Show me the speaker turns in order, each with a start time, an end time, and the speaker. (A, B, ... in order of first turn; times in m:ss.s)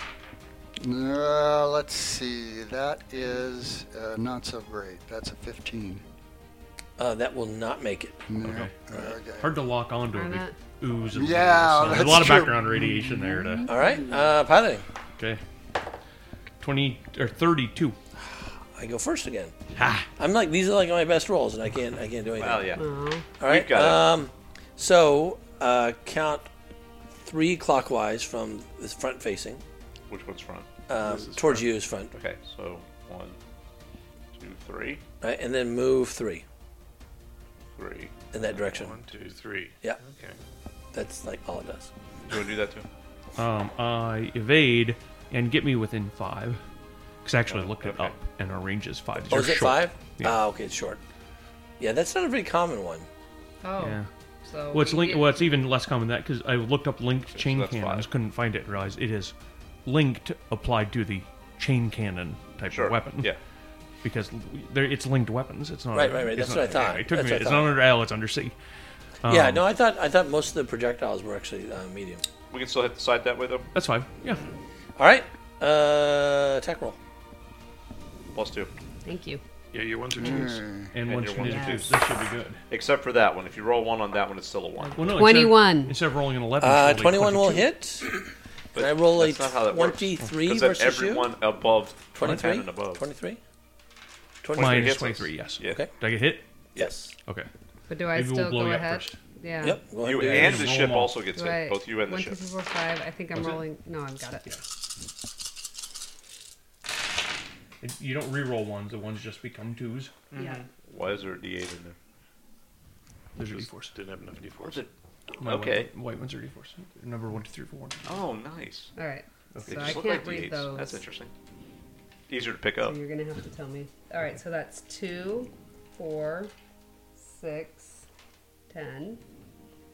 0:00.8-0:06.0 A
0:07.0-0:08.2 B
0:08.3-0:09.6 A
0:08.4-0:08.7 C
0:09.4-0:13.7 C
0:10.1-0:10.6 D
0:11.1-0:13.7 A
0:13.7-0:14.8 B
0:16.6-0:18.0 C
0:18.4-0:19.5 B
0:19.8-0:20.1 C
0:20.2-0:22.7 B
0:22.3-0:22.8 E
0:22.8-0:23.2 D
0:23.4-0:26.5 B
0:23.4-0:24.1 E
0:27.2-0:29.6 B
0:30.1-0:30.7 E
0:30.9-0:32.1 B
0:31.0-0:31.7 F
0:32.1-0:33.4 E
0:34.3-0:35.0 E
0:35.2-0:36.4 B
0:37.8-0:38.3 E
0:38.3-0:39.0 B
0:38.4-0:40.4 F
0:40.9-0:41.9 B
0:42.3-0:42.9 E
0:43.4-0:46.6 C
0:47.2-0:50.4 C
0:47.6-0:48.0 E
0:49.3-0:51.0 B
0:51.8-0:53.1 B
0:53.6-0:55.5 D
0:53.8-0:54.1 C
0:54.7-0:59.3 C
0:57.3-0:58.1 E
0:59.9-1:03.3 C
1:02.7-1:03.4 E
1:04.0-1:08.6 C
1:05.9-1:07.8 B
1:09.2-1:09.6 C
1:09.3-1:12.2 B
1:12.5-1:13.7 E
1:13.7-1:14.4 C
1:15.0-1:17.0 B
1:18.3-1:18.7 E
1:19.0-1:19.4 D
1:19.7-1:20.6 F
1:20.2-1:20.9 A
1:20.9-1:22.6 C
1:21.0-1:21.9 E
1:21.4-1:22.0 D
1:22.7-1:25.1 E
1:24.8-1:26.0 D
1:25.0-1:27.7 C
1:26.6-1:28.2 B
1:28.7-1:33.0 E
1:28.7-1:31.3 B
1:32.1-1:33.4 B
1:34.4-1:35.0 B
1:34.6-1:35.8 E
1:34.6-1:36.4 C
1:35.6-1:35.9 B
1:36.8-1:37.1 B
1:37.9-1:39.8 D
1:38.1-1:39.2 C
1:39.6-1:40.7 B
1:40.0-1:42.4 E
1:40.1-1:41.2 C
1:41.3-1:44.5 D
1:43.3-1:43.6 C
1:47.8-1:50.1 C
1:50.3-1:50.7 F
1:50.4-1:50.6 D
1:50.9-1:52.0 E
1:53.4-1:54.0 C
1:53.4-1:54.9 F
1:54.6-1:54.9 E
1:55.4-1:55.9 E
1:55.4-1:58.1 C
1:58.0-1:58.9 E
1:59.0-2:01.0 D
1:59.5-2:00.0 C
1:59.7-2:01.3 E
2:02.3-2:03.0 E
2:02.8-2:06.5 D
2:07.3-2:08.0 D
2:08.7-2:09.2 D